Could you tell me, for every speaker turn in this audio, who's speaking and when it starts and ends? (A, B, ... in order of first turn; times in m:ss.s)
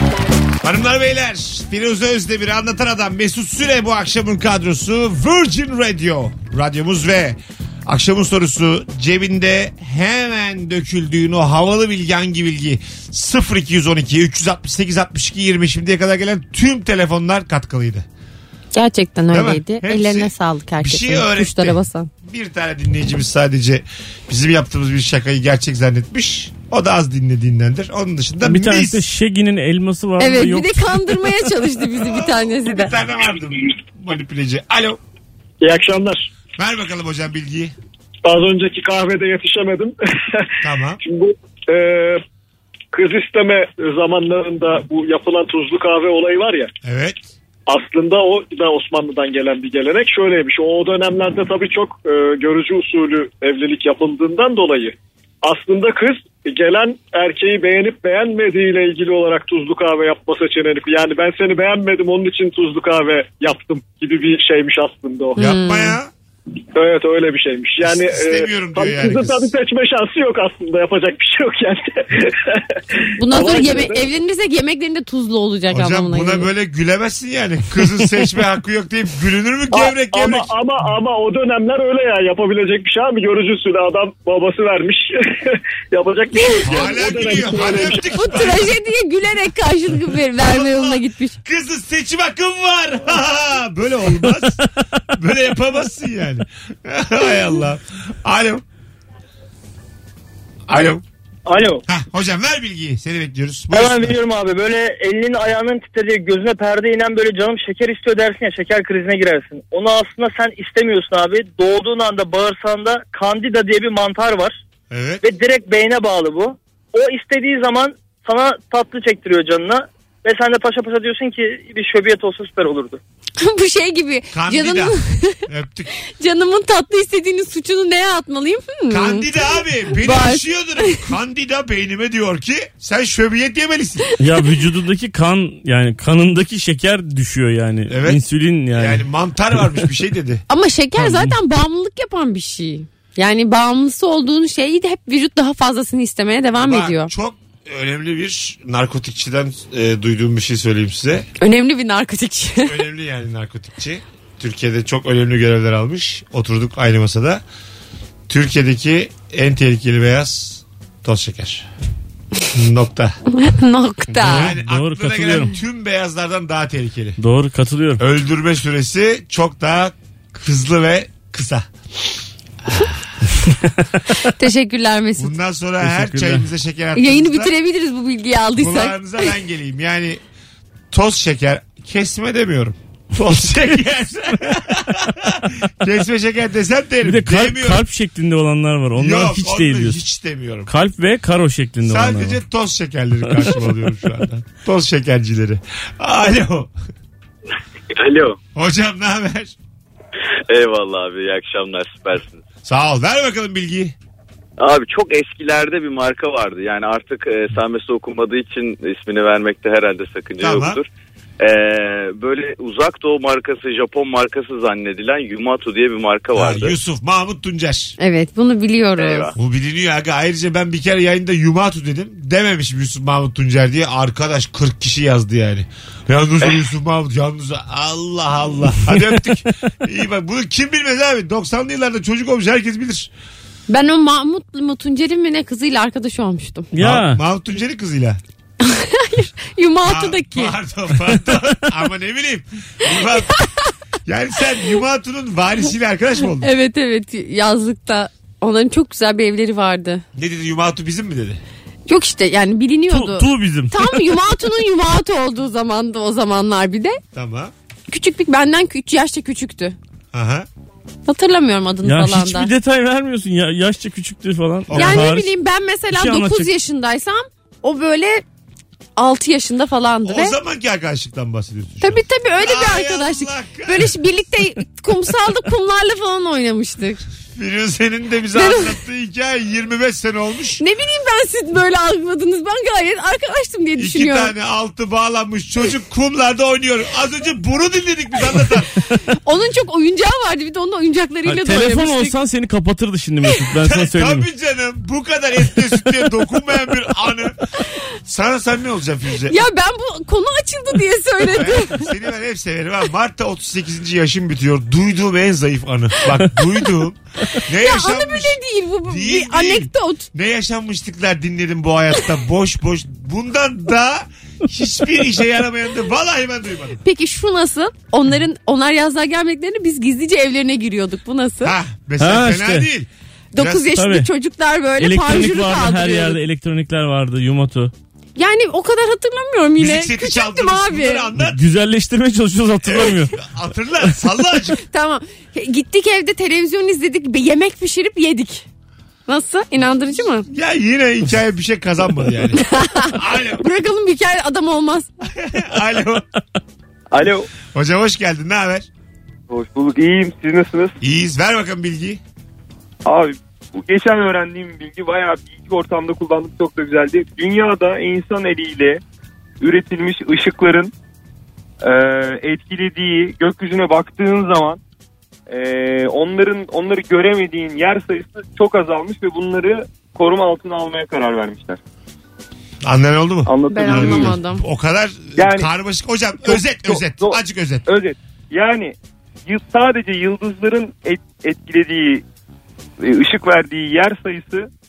0:00.6-0:18.0 A
0:18.7-0:22.1 B
0:19.3-0:29.0 A
0:28.4-0:31.2 C
0:30.2-0:32.9 B
0:31.9-0:35.0 A
0:35.6-0:36.3 D
0:36.6-0:37.7 A
0:38.2-0:42.2 D
0:40.6-0:41.0 A
0:42.9-0:46.7 D
0:46.8-0:47.3 A
0:47.7-1:05.4 D
1:05.4-1:06.0 B
1:05.4-1:06.1 A
1:06.7-1:14.0 D
1:07.8-1:09.5 A
1:13.2-1:16.5 B
1:15.7-1:20.5 A
1:19.7-1:28.4 D
1:26.6-1:28.7 A
1:28.1-1:31.4 B
1:30.4-1:34.6 A
1:35.1-1:38.6 A
1:40.7-1:41.0 A
1:41.5-1:41.8 E
1:41.9-1:44.2 A
1:43.7-1:54.6 E
1:54.9-1:55.2 A
1:55.2-2:03.0 E
2:03.4-2:05.4 B
2:04.3-2:05.9 A
2:06.0-2:11.1 B
2:08.9-2:14.1 A
2:14.2-2:19.0 C
2:17.9-2:18.2 A
2:18.7-2:20.4 A
2:20.5-2:27.1 B
2:21.0-2:21.3 C
2:26.5-2:31.3 A
2:31.4-2:32.8 B
2:32.6-2:37.4 A
2:38.3-2:41.6 A
2:42.5-2:43.2 A
2:43.3-2:44.6 B
2:44.1-2:45.5 C
2:44.2-2:47.2 A
2:47.2-2:48.0 C
2:48.0-2:51.7 A
2:52.6-2:52.9 A
2:54.2-2:55.3 B
2:55.2-2:57.5 A
2:55.8-2:56.4 C
2:56.9-2:59.3 B
2:58.6-3:00.2 A
3:00.9-3:07.8 A
3:07.0-3:10.0 C
3:09.0-3:10.7 A
3:10.7-3:12.4 C
3:11.8-3:16.7 A
3:17.9-3:18.4 F
3:18.5-3:19.5 A
3:20.5-3:22.4 F
3:22.6-3:23.9 A
3:24.6-3:30.9 F
3:30.4-3:30.8 A
3:31.4-3:36.8 F
3:36.3-3:37.9 A
3:38.0-3:39.3 B
3:39.0-3:39.3 F
3:39.3-3:53.1 A
3:53.7-3:56.7 B
3:56.7-3:57.2 C
3:56.8-3:58.2 A
3:58.6-4:00.6 B
3:59.8-4:03.4 A
4:04.0-4:06.5 A
4:06.3-4:10.0 B
4:10.1-4:11.4 A
4:11.9-4:17.0 B
4:12.9-4:14.1 C
4:17.1-4:17.5 A
4:17.9-4:19.8 B
4:20.1-4:20.5 A
4:21.0-4:22.5 B
4:21.8-4:25.3 C
4:24.7-4:25.2 A
4:24.7-4:28.2 B
4:25.9-4:26.5 C
4:29.0-4:30.4 B
4:30.0-4:33.9 A
4:31.8-4:37.0 B
4:37.3-4:40.6 A
4:38.3-4:38.8 B
4:40.6-4:44.3 B
4:43.8-4:48.7 A
4:49.2-4:52.2 B
4:51.2-4:54.2 C
4:53.6-4:57.4 A
4:58.0-4:59.4 A
4:59.2-5:01.9 B
5:01.3-5:16.8 A
5:07.5-5:10.1 B
5:16.8-5:21.6 B
5:21.4-5:23.7 A
5:22.0-5:22.7 C
5:23.3-5:26.2 B
5:23.7-5:24.1 C
5:24.8-5:27.7 C
5:28.2-5:31.1 B
5:29.6-5:31.4 A
5:31.2-5:33.1 C
5:32.6-5:34.6 A
5:34.6-5:38.4 B
5:39.1-5:40.3 B
5:40.3-5:43.4 A
5:42.3-5:44.9 B
5:45.1-5:46.0 A
5:46.9-5:47.3 G
5:47.5-5:48.7 A
5:49.3-5:50.7 G
5:50.8-5:52.0 A
5:52.8-5:58.8 G
5:59.4-6:00.7 G
6:01.6-6:04.6 G
6:05.3-6:11.6 G
6:12.6-6:17.7 A
6:13.2-6:14.1 G
6:13.5-6:14.4 B
6:15.2-6:15.5 G
6:16.2-6:22.0 G
6:22.8-6:24.5 G